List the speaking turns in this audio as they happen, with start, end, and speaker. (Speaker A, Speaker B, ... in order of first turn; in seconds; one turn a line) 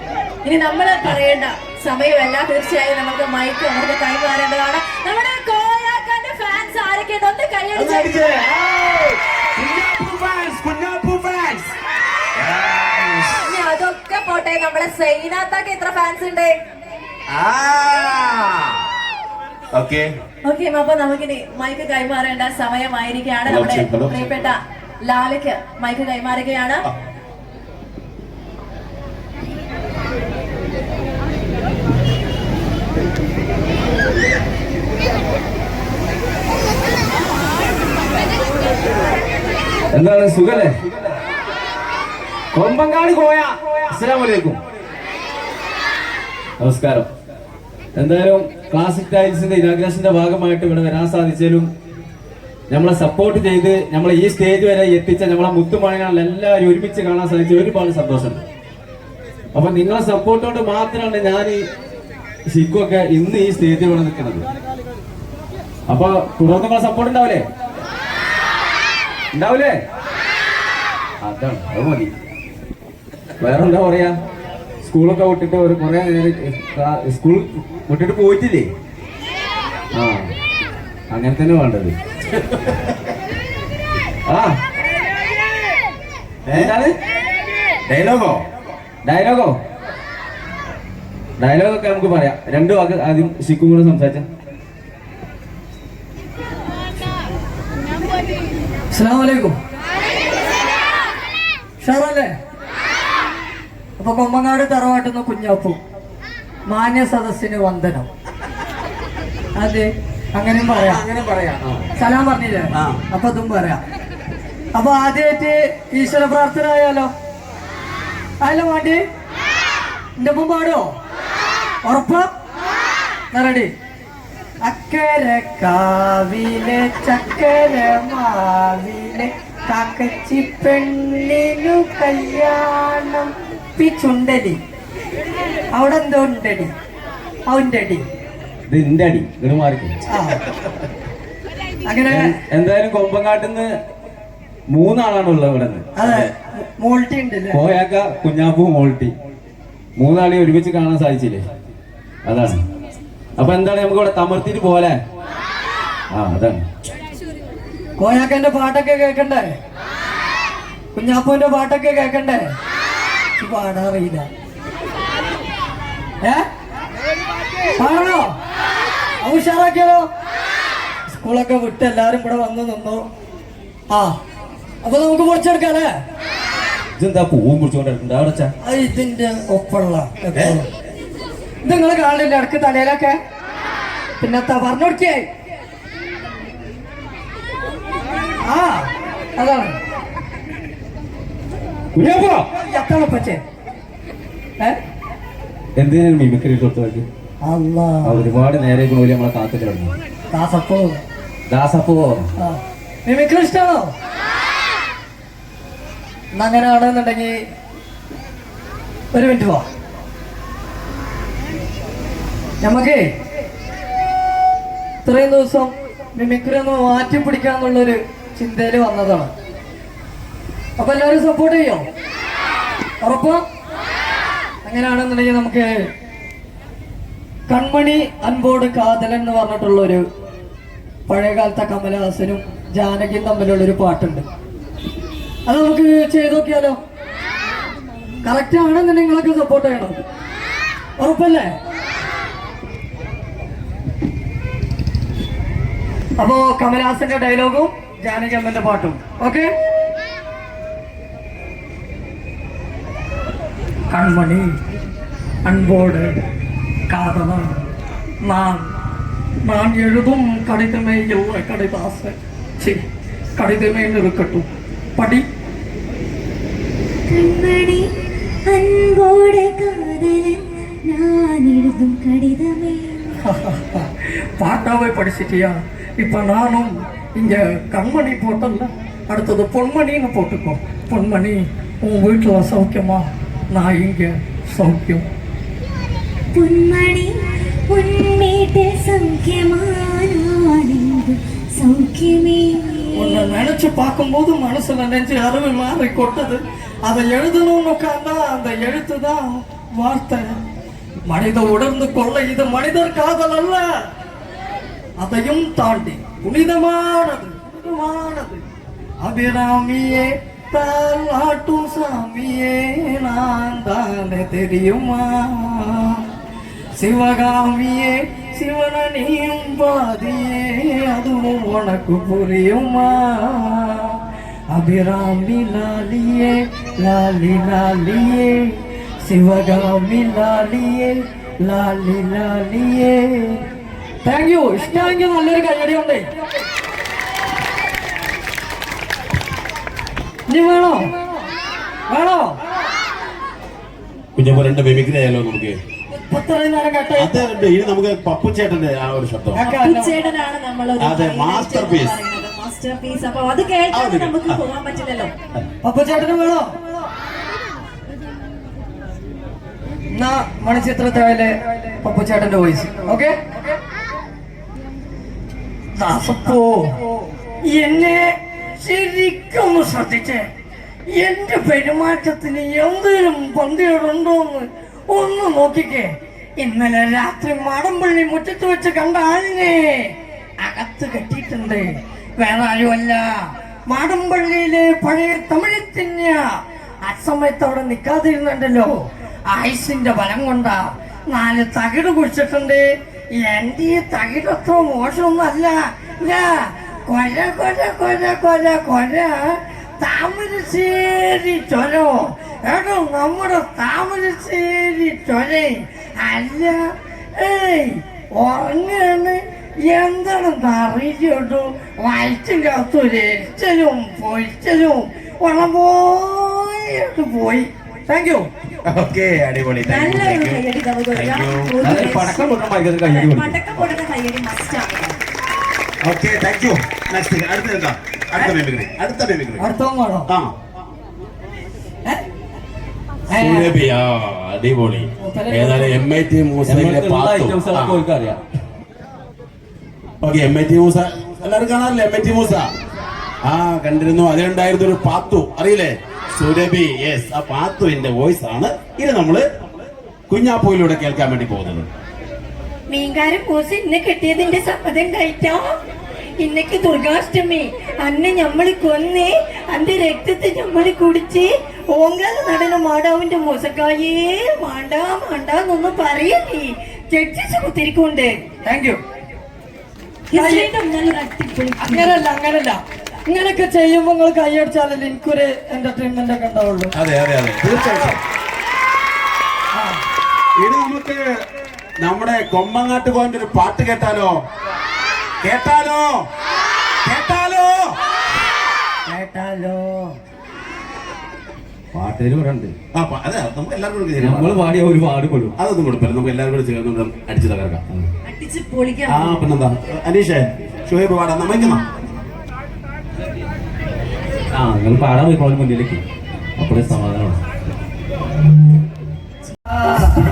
Speaker A: 0.4-8.2
Speaker B: 7.7-11.7
Speaker B: 12.3-13.5
Speaker A: 13.4-16.6
Speaker B: 17.3-18.8
Speaker B: 19.7-20.1
Speaker A: 20.4-26.8
Speaker B: 23.4-24.2
Speaker C: 39.9-40.7
Speaker C: 42.5-44.6
Speaker C: 46.6-47.1
Speaker C: 48.0-51.7
Speaker C: 52.7-58.4
Speaker C: 59.5-61.6
Speaker C: 62.5-64.5
Speaker C: 65.9-67.4
Speaker C: 69.3-69.7
Speaker C: 71.2-72.1
Speaker C: 73.4-74.1
Speaker C: 74.8-78.7
Speaker C: 79.9-80.3
Speaker C: 81.1-82.0
Speaker B: 82.3-82.9
Speaker C: 84.3-84.5
Speaker B: 86.5-86.7
Speaker C: 86.5-86.9
Speaker B: 87.9-88.4
Speaker C: 89.0-89.5
Speaker C: 91.4-94.2
Speaker D: 98.9-99.6
Speaker D: 101.8-102.3
Speaker D: 104.0-105.8
Speaker D: 106.7-108.1
Speaker D: 109.5-111.0
Speaker B: 110.8-111.8
Speaker D: 112.0-113.8
Speaker B: 112.7-113.0
Speaker D: 114.7-117.1
Speaker D: 118.4-119.0
Speaker D: 120.2-120.9
Speaker D: 121.8-122.3
Speaker D: 123.3-123.7
Speaker D: 124.6-134.6
Speaker D: 135.7-136.7
Speaker D: 137.5-138.0
Speaker C: 138.7-139.9
Speaker D: 140.1-140.4
Speaker D: 141.8-142.3
Speaker C: 142.1-143.7
Speaker C: 144.7-145.9
Speaker D: 145.9-147.6
Speaker C: 147.5-149.1
Speaker C: 150.0-151.4
Speaker C: 152.2-152.6
Speaker C: 153.4-155.0
Speaker C: 156.1-156.6
Speaker D: 158.0-159.5
Speaker D: 160.9-162.4
Speaker D: 163.4-164.2
Speaker D: 167.8-168.3
Speaker D: 169.2-170.0
Speaker D: 171.1-173.0
Speaker D: 174.8-175.9
Speaker C: 177.0-178.5
Speaker D: 178.6-180.7
Speaker D: 181.6-183.2
Speaker D: 184.2-185.2
Speaker D: 188.4-189.8
Speaker C: 191.9-192.4
Speaker D: 192.7-193.4
Speaker C: 195.8-197.0
Speaker D: 197.4-198.3
Speaker C: 198.0-199.9
Speaker D: 200.3-201.0
Speaker C: 201.5-202.3
Speaker D: 202.4-203.9
Speaker D: 206.3-207.3
Speaker D: 209.1-209.7
Speaker D: 212.6-213.1
Speaker D: 215.0-219.3
Speaker D: 220.8-221.8
Speaker D: 223.0-223.4
Speaker D: 224.6-225.9
Speaker D: 227.5-230.0
Speaker D: 231.1-234.2
Speaker D: 235.5-236.8
Speaker D: 238.2-240.0
Speaker D: 241.0-241.5
Speaker D: 246.2-249.5
Speaker D: 253.9-254.5
Speaker D: 255.4-256.2
Speaker D: 256.9-257.7
Speaker D: 258.2-258.7
Speaker D: 259.4-262.8
Speaker D: 263.4-265.2
Speaker E: 267.1-267.9
Speaker E: 268.5-273.2
Speaker D: 273.2-285.0
Speaker E: 286.3-293.3
Speaker D: 292.9-300.3
Speaker D: 301.1-303.7
Speaker D: 305.0-308.4
Speaker D: 309.0-316.1
Speaker D: 316.8-324.0
Speaker D: 324.5-333.4
Speaker D: 334.0-336.0
Speaker D: 340.3-340.9
Speaker D: 341.9-342.4
Speaker B: 344.1-345.6
Speaker D: 345.9-347.2
Speaker B: 347.0-349.4
Speaker D: 349.3-349.9
Speaker A: 349.4-355.1
Speaker B: 350.8-352.0
Speaker B: 353.7-354.4
Speaker D: 355.6-356.5
Speaker D: 359.9-363.2
Speaker D: 365.8-366.7
Speaker D: 367.5-370.2
Speaker D: 370.9-383.1
Speaker D: 383.7-386.2
Speaker D: 386.8-388.7
Speaker D: 389.3-392.6
Speaker D: 393.2-418.3
Speaker B: 418.7-421.5
Speaker A: 419.6-425.0
Speaker C: 421.6-423.4
Speaker B: 425.8-429.5
Speaker D: 429.4-430.1
Speaker D: 433.1-433.5
Speaker B: 433.2-437.8
Speaker D: 435.0-435.7
Speaker C: 436.5-438.2
Speaker B: 440.0-442.5
Speaker B: 443.2-449.2
Speaker B: 450.1-451.7
Speaker F: 452.7-455.4
Speaker F: 456.2-461.2
Speaker F: 461.8-466.4
Speaker D: 463.3-463.8
Speaker D: 464.5-465.7
Speaker F: 467.0-468.1
Speaker D: 467.1-467.3
Speaker D: 468.4-468.8
Speaker A: 470.1-472.0
Speaker D: 470.1-470.5
Speaker D: 471.6-476.7
Speaker B: 476.8-478.0
Speaker D: 479.5-479.8
Speaker B: 480.4-481.0
Speaker B: 481.8-484.1
Speaker B: 485.2-486.0
Speaker B: 486.8-487.8
Speaker D: 488.9-489.9
Speaker C: 491.7-492.5
Speaker B: 492.7-494.4
Speaker C: 494.0-495.3
Speaker B: 495.4-497.6
Speaker A: 498.0-499.2
Speaker B: 498.9-501.6
Speaker C: 504.3-505.8
Speaker C: 506.4-507.2